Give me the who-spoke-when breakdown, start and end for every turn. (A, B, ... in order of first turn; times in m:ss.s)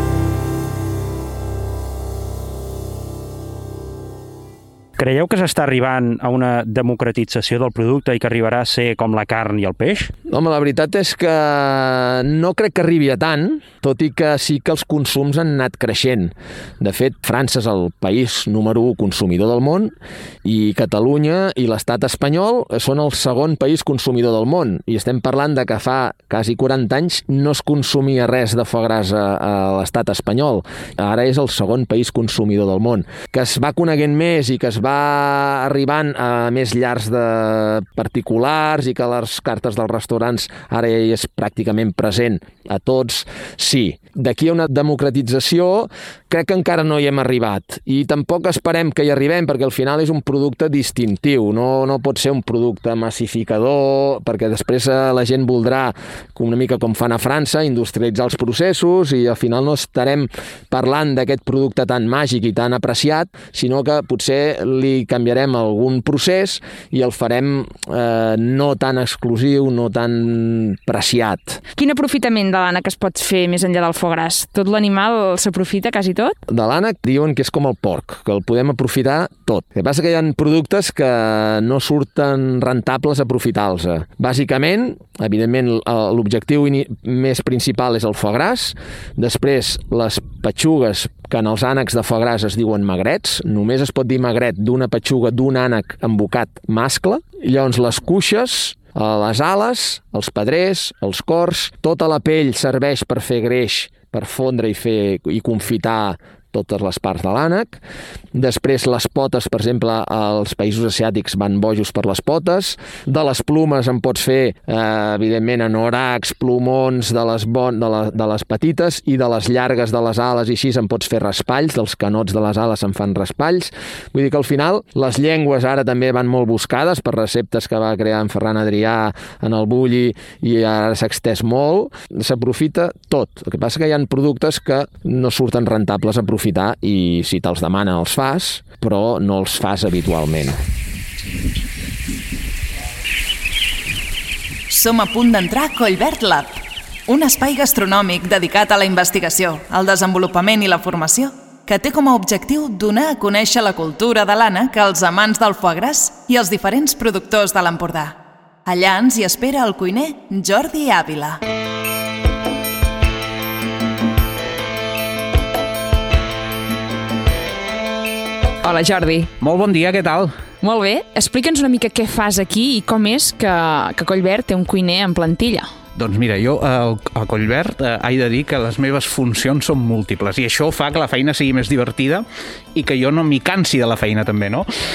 0:05.0-0:10.1 A
0:10.3-1:11.6 B
1:11.8-1:16.4 C
1:16.5-1:47.8 B
1:48.3-2:20.6 B
2:24.7-2:41.4 D
2:48.6-2:49.3 C
2:49.4-2:50.3 E
2:50.6-2:55.7 C
2:56.0-3:04.7 E